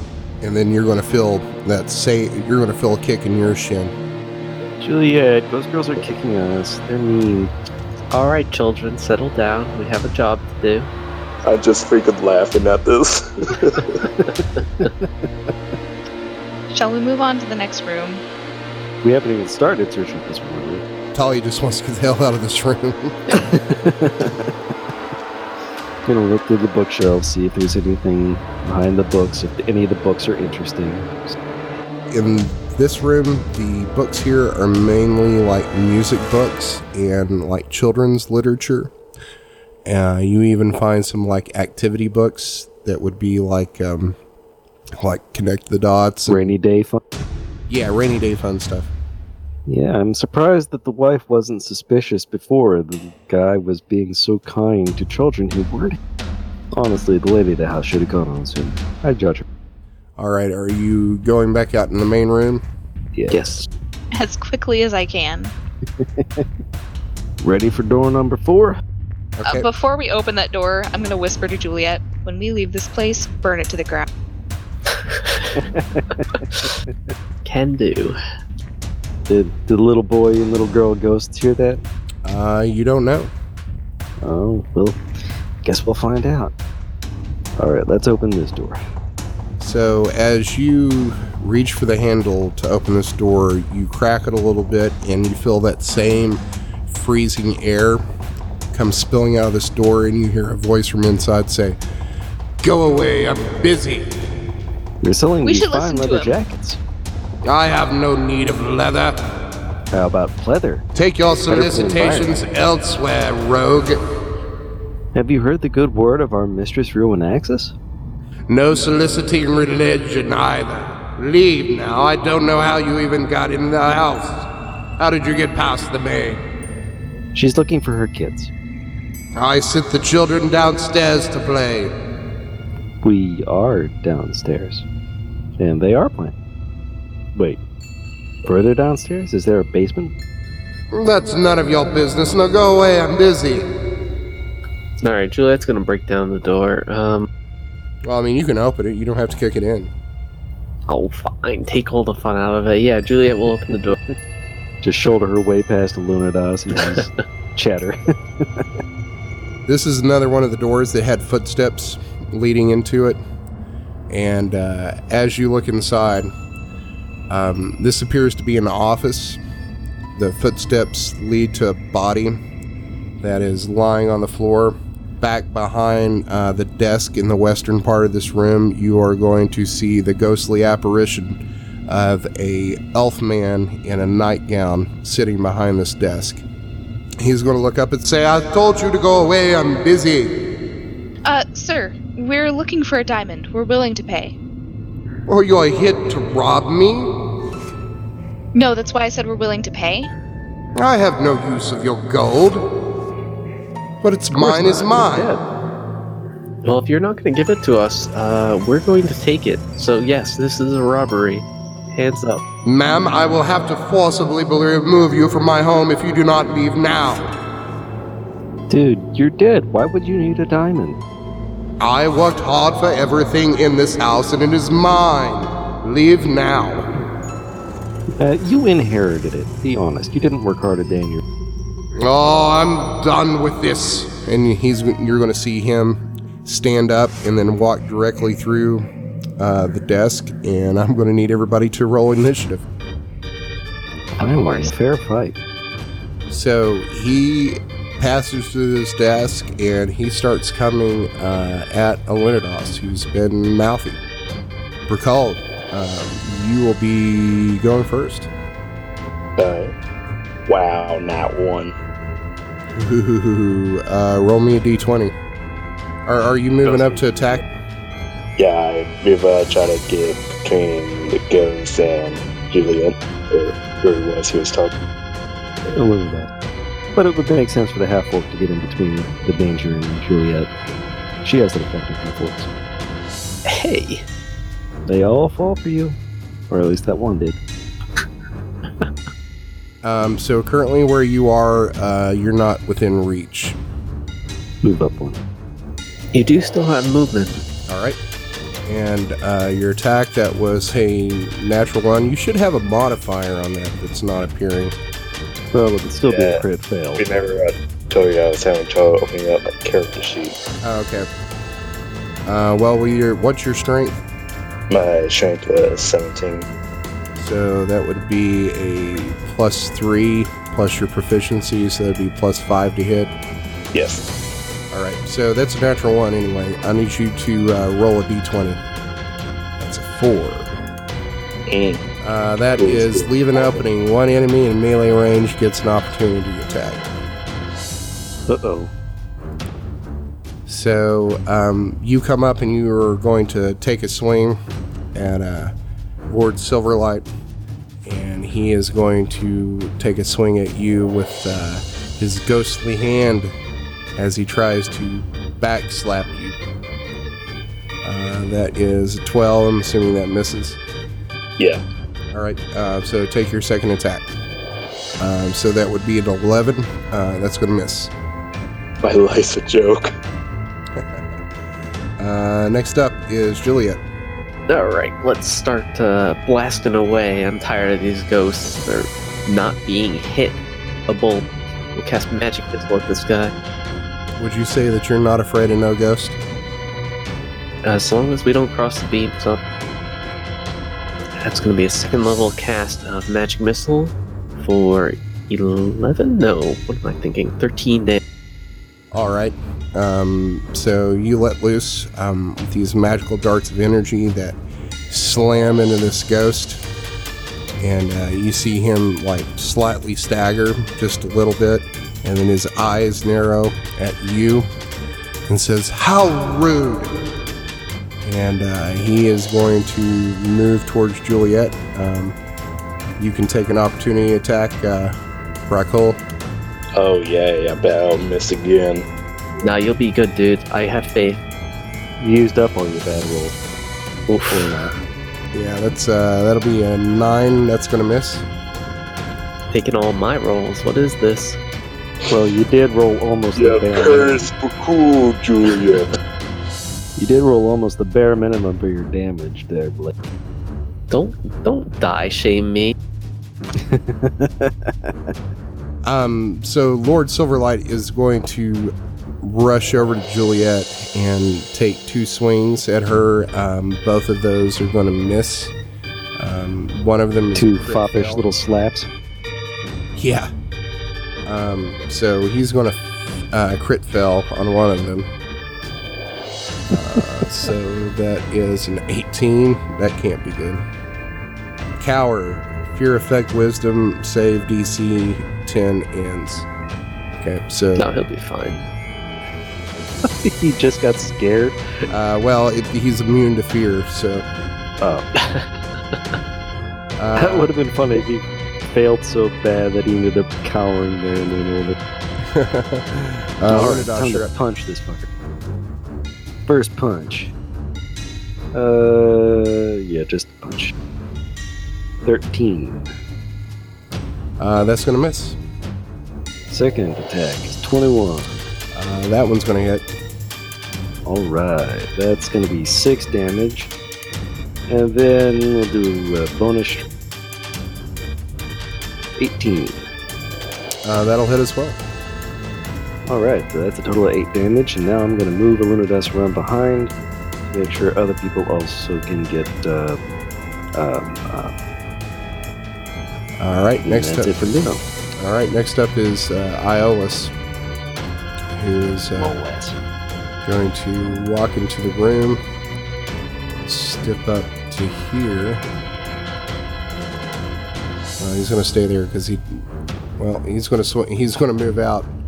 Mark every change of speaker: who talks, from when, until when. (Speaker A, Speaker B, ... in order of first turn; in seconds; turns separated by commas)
Speaker A: 0.4-3.9, Speaker B: 4.8-7.5, Speaker C: 8.1-10.9, Speaker D: 11.4-14.1, Speaker E: 16.7-18.2, Speaker B: 19.0-20.8, Speaker A: 21.1-23.7, Speaker B: 23.4-24.6, Speaker B: 26.1-31.4, Speaker A: 32.1-38.9, Speaker A: 39.9-44.2, Speaker A: 45.0-46.5, Speaker B: 46.3-47.0, Speaker A: 47.7-48.9, Speaker B: 49.7-56.0, Speaker B: 56.7-59.5, Speaker A: 60.2-62.6, Speaker B: 63.1-63.6, Speaker C: 63.3-63.7, Speaker E: 64.1-65.5, Speaker B: 66.0-66.5, Speaker B: 67.4-68.8, Speaker A: 69.4-69.7, Speaker E: 69.5-74.1, Speaker C: 75.0-75.5, Speaker B: 75.5-76.9, Speaker C: 77.5-78.2, Speaker B: 79.3-81.8, Speaker A: 82.2-83.3, Speaker B: 84.2-85.0, Speaker B: 85.6-86.5, Speaker B: 87.6-88.8, Speaker A: 89.6-98.0, Speaker A: 98.7-101.8, Speaker A: 102.6-104.2, Speaker B: 105.0-106.8, Speaker E: 105.4-106.3, Speaker A: 107.4-109.4, Speaker B: 109.9-110.9, Speaker A: 111.0-114.0, Speaker B: 111.5-112.3, Speaker B: 115.1-117.7, Speaker A: 118.5-126.4, Speaker B: 127.3-128.5, Speaker A: 129.4-131.9, Speaker B: 133.0-134.8, Speaker B: 135.6-136.3, Speaker B: 137.3-137.6, Speaker B: 138.4-140.1, Speaker A: 140.9-143.7, Speaker C: 145.0-147.3, Speaker A: 148.1-149.9, Speaker C: 150.9-154.0, Speaker B: 154.8-158.7, Speaker A: 159.7-163.2, Speaker A: 164.1-166.3, Speaker A: 167.3-169.4, Speaker A: 170.2-172.4, Speaker A: 173.2-186.4, Speaker A: 187.2-190.6, Speaker E: 191.2-194.4, Speaker A: 195.3-197.3, Speaker E: 198.5-200.1, Speaker A: 200.8-202.7, Speaker A: 204.0-205.3, Speaker B: 204.3-205.4, Speaker C: 206.6-212.4, Speaker A: 212.6-217.3, Speaker B: 218.7-221.0, Speaker A: 221.8-226.9, Speaker B: 228.2-231.2, Speaker A: 231.9-238.9, Speaker A: 239.4-242.7, Speaker B: 244.2-245.4, Speaker C: 244.2-244.7, Speaker A: 246.3-254.0, Speaker A: 254.9-258.3, Speaker D: 259.4-259.7, Speaker D: 260.5-261.7, Speaker A: 262.7-265.1, Speaker A: 266.1-267.4, Speaker D: 266.6-267.4, Speaker D: 268.4-274.8, Speaker B: 275.7-276.3, Speaker B: 276.9-280.5, Speaker B: 281.2-282.5, Speaker C: 283.5-284.0, Speaker B: 284.9-286.0, Speaker B: 286.5-287.4, Speaker A: 289.8-293.6, Speaker B: 294.6-295.2, Speaker C: 296.1-297.4, Speaker A: 297.7-298.0, Speaker A: 298.7-304.8, Speaker B: 305.5-307.1, Speaker D: 306.1-306.4, Speaker D: 307.0-310.4, Speaker A: 310.6-311.1, Speaker A: 312.3-314.0, Speaker D: 314.7-316.5, Speaker A: 317.2-323.1, Speaker D: 323.7-324.1, Speaker A: 324.7-328.6, Speaker A: 329.6-330.6, Speaker D: 331.5-331.9, Speaker A: 332.0-336.9, Speaker D: 332.6-333.5, Speaker B: 338.3-338.7, Speaker A: 340.5-344.4, Speaker A: 344.9-345.5, Speaker A: 346.1-347.1, Speaker A: 347.9-353.4, Speaker A: 354.0-356.4, Speaker A: 357.8-360.6, Speaker D: 361.4-361.6, Speaker A: 362.1-364.1, Speaker A: 365.0-367.9, Speaker D: 368.8-369.9, Speaker A: 370.8-371.0, Speaker A: 372.0-373.8, Speaker C: 374.5-383.3, Speaker A: 384.2-386.2, Speaker C: 387.6-389.4, Speaker C: 391.2-398.0, Speaker A: 398.9-404.4, Speaker A: 404.9-406.6, Speaker A: 407.6-414.5, Speaker A: 415.3-416.9, Speaker A: 418.0-422.2, Speaker A: 423.0-424.9, Speaker A: 425.5-426.0, Speaker D: 426.8-428.9, Speaker C: 429.4-431.2, Speaker B: 432.0-433.4, Speaker C: 434.1-434.7, Speaker B: 434.3-434.7, Speaker A: 435.3-438.2, Speaker C: 439.5-441.4, Speaker B: 442.1-444.3, Speaker D: 443.3-446.0, Speaker B: 447.0-449.9, Speaker C: 450.9-452.8, Speaker B: 453.6-455.1, Speaker A: 455.9-465.5, Speaker A: 466.2-468.2, Speaker B: 467.4-468.9, Speaker A: 470.0-470.3, Speaker A: 471.3-475.1, Speaker A: 476.7-480.6, Speaker A: 481.8-486.5, Speaker A: 487.1-487.9, Speaker C: 487.8-488.6, Speaker B: 490.0-491.6, Speaker A: 491.9-494.3, Speaker B: 494.8-495.1, Speaker C: 495.2-495.5, Speaker A: 497.0-497.5, Speaker B: 497.2-501.8, Speaker A: 502.3-504.3, Speaker B: 503.5-505.1, Speaker B: 506.5-507.3, Speaker B: 508.5-510.8, Speaker B: 512.0-512.9, Speaker A: 514.4-515.4, Speaker B: 516.5-518.4, Speaker A: 518.7-519.9, Speaker B: 521.0-523.7, Speaker B: 524.7-526.9, Speaker B: 529.2-529.9, Speaker A: 530.8-531.8, Speaker B: 533.1-536.9, Speaker B: 537.5-540.0, Speaker B: 540.8-541.5, Speaker A: 543.4-544.4, Speaker B: 543.8-544.8, Speaker A: 545.2-547.3, Speaker A: 548.6-549.4, Speaker B: 549.1-549.8, Speaker A: 550.4-552.4, Speaker A: 553.6-555.6, Speaker A: 558.2-559.6, Speaker A: 560.2-562.1